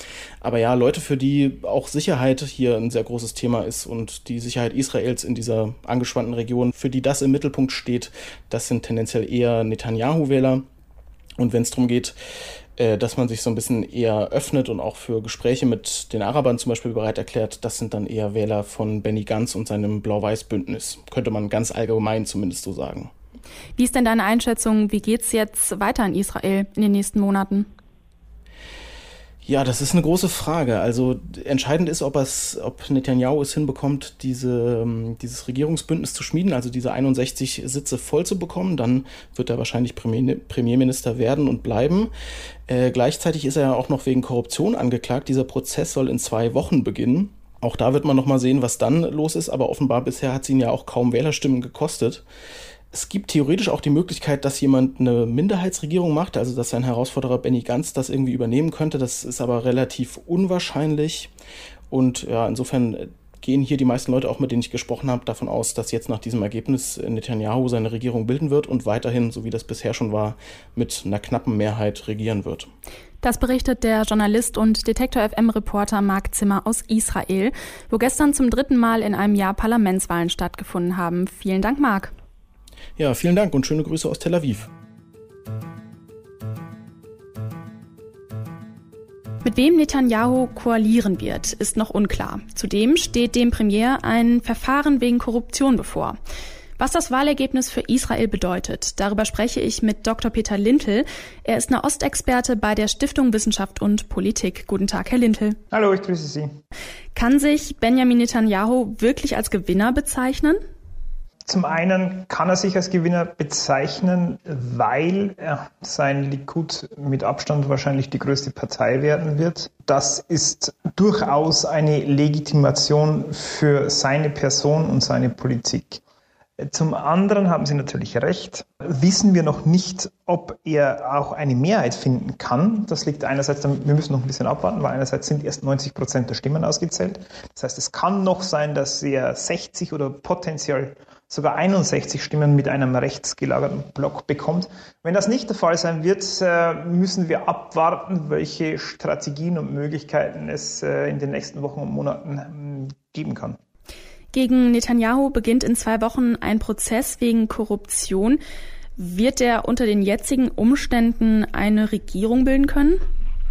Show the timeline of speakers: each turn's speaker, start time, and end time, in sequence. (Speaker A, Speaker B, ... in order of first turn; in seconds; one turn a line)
Speaker A: 0.4-10.7
Speaker A: 11.4-12.2
Speaker A: 12.8-23.1
Speaker B: 23.8-27.7
Speaker A: 29.4-42.1
Speaker A: 42.7-52.2
Speaker A: 52.9-61.3
Speaker A: 61.9-72.7
Speaker B: 73.2-82.1
Speaker A: 83.0-84.7
Speaker B: 89.4-96.2
Speaker B: 96.8-105.6
Speaker C: 105.7-106.5
Speaker B: 107.2-110.6
Speaker C: 111.5-126.0
Speaker C: 126.6-153.6
Speaker B: 154.3-158.4
Speaker B: 159.0-163.0